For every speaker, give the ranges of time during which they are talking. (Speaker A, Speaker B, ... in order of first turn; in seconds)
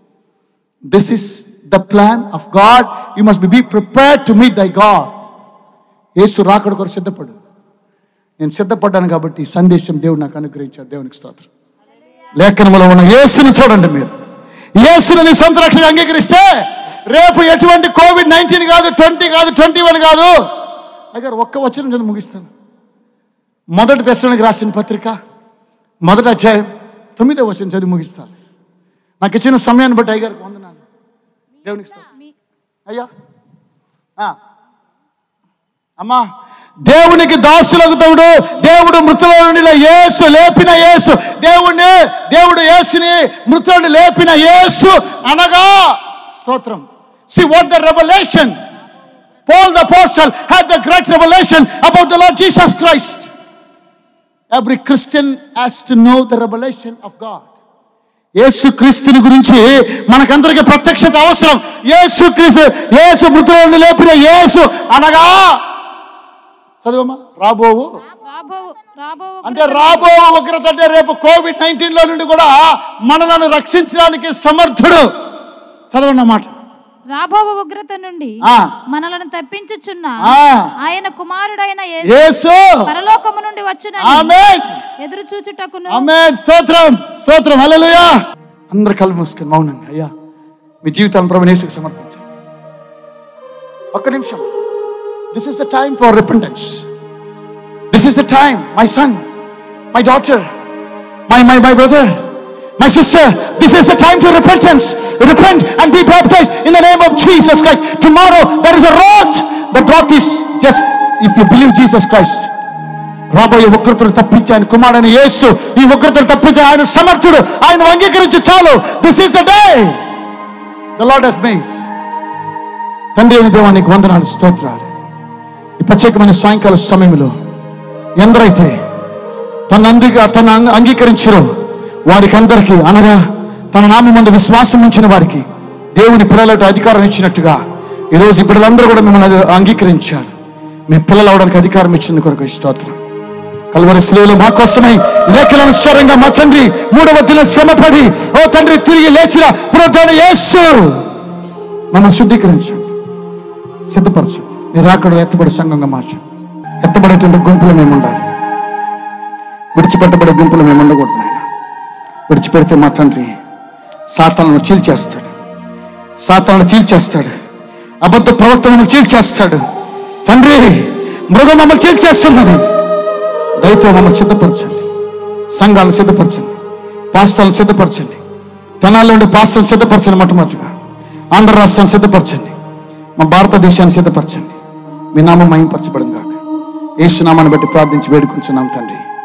Speaker A: 0.9-5.2, 6.2-7.4, 8.4-11.5, 12.3-14.1, 14.8-20.3, 21.1-22.5, 23.7-25.1, 26.1-28.3, 29.2-30.8, 31.6-32.1, 36.0-36.2, 36.8-48.5, 49.5-53.3, 54.5-57.5, 58.4-65.6, 66.8-67.9, 69.4-75.1, 75.9-76.5, 78.4-78.7, 80.2-80.7, 82.0-82.9, 84.0-84.8, 85.9-88.1, 88.7-90.1, 90.8-92.2, 93.9-94.5, 95.3-96.8, 97.9-99.2, 99.9-100.5, 101.3-102.2, 102.8-112.5, 113.3-120.0, 121.0-121.8, 123.1-124.9, 125.8-127.3, 128.2-128.7, 129.7-131.5, 132.1-133.2, 133.7-135.4, 136.0-137.6, 138.1-140.3, 140.9-143.0, 143.7-151.0, 151.9-152.9, 153.9-156.2, 156.8-158.3, 159.7-161.4, 162.3-163.3, 164.2-165.3, 166.2-167.3, 168.0-169.6, 170.2-172.7, 173.6-174.8, 175.5-176.5, 177.1-178.2, 178.8-180.7, 181.3-182.5, 183.2-184.6, 185.1-186.4, 187.0-189.0
Speaker B: 32.1-32.3, 68.2-70.1, 77.1-82.3, 82.8-84.3, 85.0-86.0